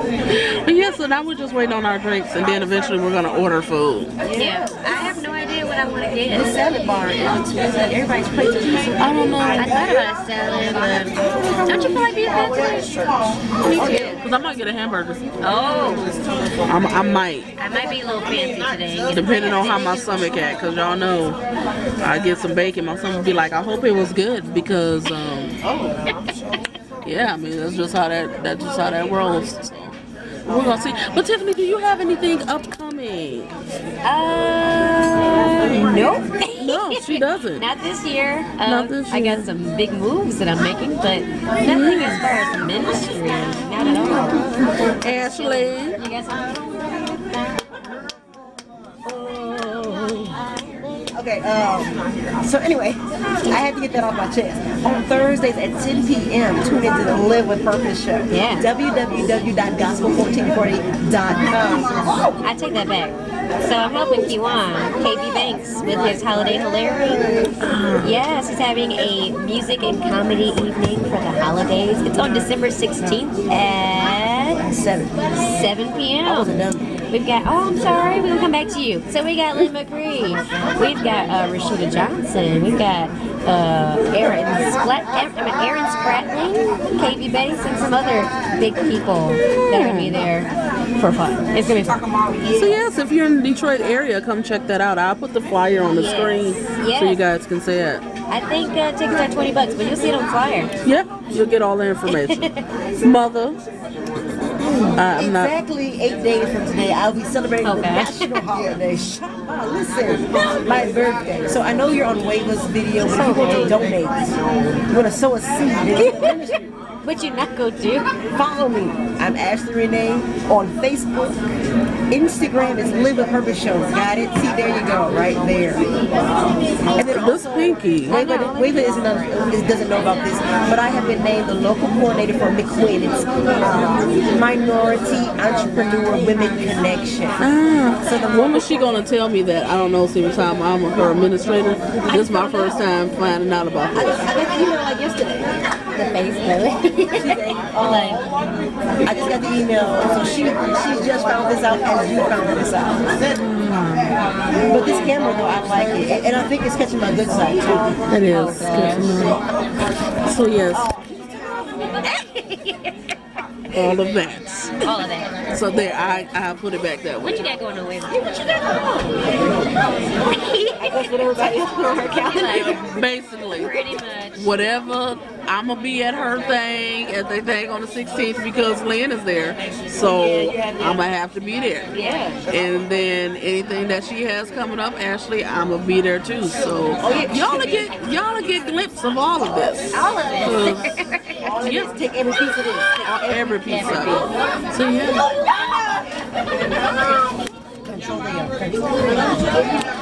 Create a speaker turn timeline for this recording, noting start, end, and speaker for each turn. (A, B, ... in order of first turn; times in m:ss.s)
0:00.3-0:04.1 A
0:04.2-0:05.2 B
0:04.3-0:06.6 C
0:06.3-0:10.0 B
0:09.0-0:09.8 A
0:09.5-0:14.2 C
0:11.2-0:12.1 B
0:13.8-0:14.2 B
0:14.0-0:15.4 A
0:15.4-0:16.1 C
0:16.6-0:17.5 A
0:17.6-0:20.0 C
0:19.1-0:21.4 A
0:22.0-0:25.6 A
0:25.8-0:26.0 B
0:27.0-0:33.5 A
0:34.0-0:47.4 C
0:35.7-0:36.0 A
0:36.6-0:37.6 A
0:38.6-0:39.5 A
0:41.6-0:42.2 A
0:43.8-0:46.0 A
0:49.0-0:50.4 A
0:51.1-1:02.4 B
0:58.3-0:58.7 C
1:02.4-1:07.3 C
1:07.6-1:08.2 A
1:08.0-1:14.6 C
1:14.6-1:15.2 B
1:15.4-1:32.0 C
1:16.2-1:16.9 B
1:29.7-1:30.3 A
1:32.5-1:38.0 A
1:35.9-1:37.2 C
1:38.3-1:40.7 C
1:40.8-1:42.5 A
1:42.1-1:42.6 C
1:43.0-1:43.6 A
1:44.7-1:54.4 B
1:45.0-1:45.6 A
1:47.6-1:48.4 C
1:53.0-1:53.8 C
1:54.9-1:56.6 B
1:56.0-1:56.5 C
1:57.0-1:58.1 C
1:58.3-2:01.4 B
2:02.1-2:05.9 B
2:06.9-2:17.4 B
2:07.0-2:08.2 A
2:08.1-2:09.2 C
2:17.4-2:24.3 A
2:22.1-2:22.4 C
2:23.9-2:25.5 B
2:25.9-2:28.2 C
2:27.1-2:28.2 B
2:29.0-2:33.1 B
2:33.3-2:34.2 A
2:34.6-2:38.0 B
2:38.1-2:39.4 A
2:38.2-2:39.3 C
2:40.2-2:41.0 A
2:40.9-2:41.5 B
2:42.0-2:42.9 C
2:43.7-2:44.8 A
2:44.8-2:45.3 C
2:45.5-2:47.5 A
2:47.2-2:49.0 C
2:48.3-2:48.8 B
2:50.3-2:50.9 C
2:50.8-2:52.9 B
2:52.2-2:52.8 C
2:52.3-2:53.7 A
2:53.5-2:54.6 C
2:54.3-3:01.9 A
3:00.1-3:01.0 B
3:01.9-3:02.4 C
3:02.5-3:11.0 A
3:07.0-3:07.9 B
3:09.9-3:11.4 C
3:11.4-3:14.3 B
3:11.6-3:11.9 A
3:13.0-3:15.3 A
3:13.7-3:14.3 C
3:15.3-3:16.1 B
3:17.8-3:19.6 B